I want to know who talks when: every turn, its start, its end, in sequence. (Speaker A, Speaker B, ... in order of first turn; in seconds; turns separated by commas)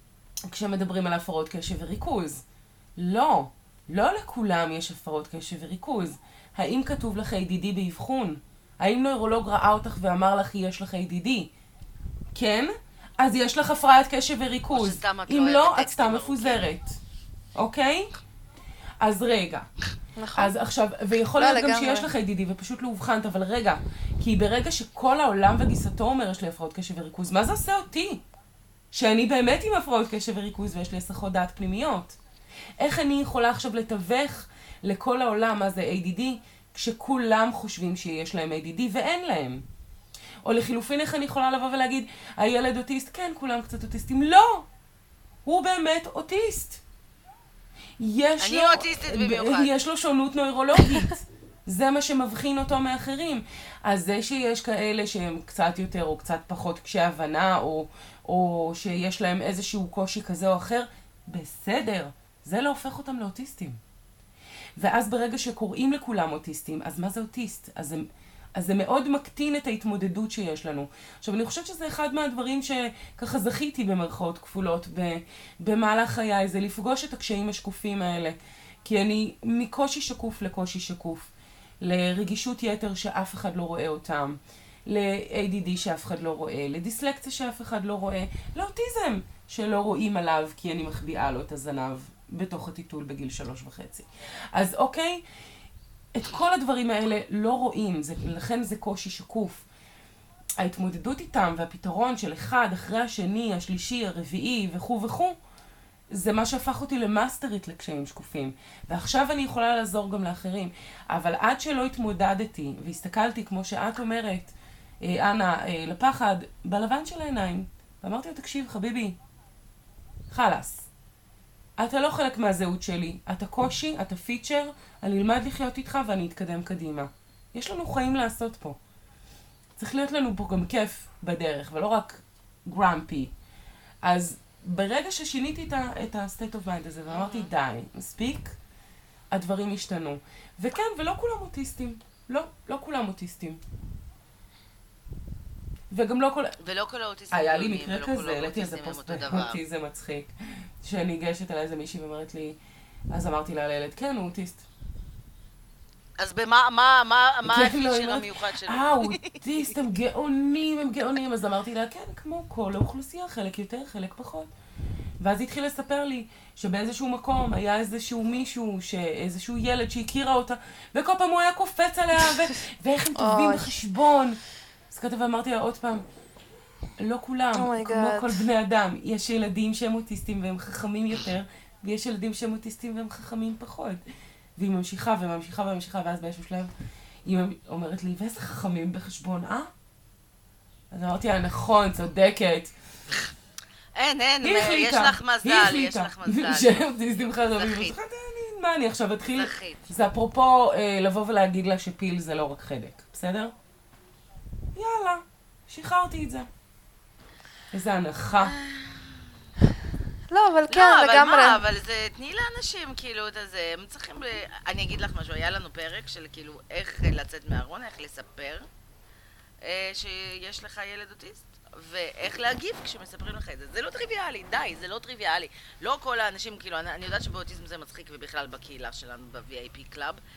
Speaker A: 0.5-2.4, Speaker A: 3.0-11.5, Speaker A: 12.3-17.0, Speaker B: 14.7-16.6, Speaker A: 17.5-18.2, Speaker A: 19.0-19.7, Speaker C: 20.2-20.5, Speaker A: 20.3-28.2, Speaker C: 21.4-22.1, Speaker A: 28.9-32.2, Speaker A: 32.8-39.6, Speaker A: 40.4-44.7, Speaker A: 45.4-46.8, Speaker A: 48.0-63.8, Speaker B: 48.4-49.7, Speaker A: 64.8-95.2, Speaker A: 96.1-99.6, Speaker A: 100.6-105.4, Speaker A: 106.1-119.2, Speaker A: 120.3-120.9, Speaker A: 121.8-128.8, Speaker A: 129.8-133.3, Speaker A: 134.0-138.6, Speaker B: 137.1-137.5, Speaker A: 139.3-143.6, Speaker A: 145.9-146.6, Speaker B: 146.6-149.6, Speaker A: 147.3-152.6, Speaker A: 153.1-154.7, Speaker B: 156.2-159.8, Speaker A: 157.4-164.5, Speaker A: 165.2-174.4, Speaker C: 173.1-173.8, Speaker A: 174.9-176.0, Speaker A: 177.0-184.0, Speaker C: 177.5-178.4, Speaker A: 184.6-186.7, Speaker A: 187.2-189.7, Speaker A: 190.9-192.7, Speaker B: 193.9-198.0, Speaker A: 194.4-203.5, Speaker B: 199.3-199.9, Speaker A: 204.7-206.5, Speaker A: 207.7-208.6, Speaker B: 208.4-209.4, Speaker C: 210.3-211.6, Speaker B: 210.7-218.7, Speaker B: 219.6-230.2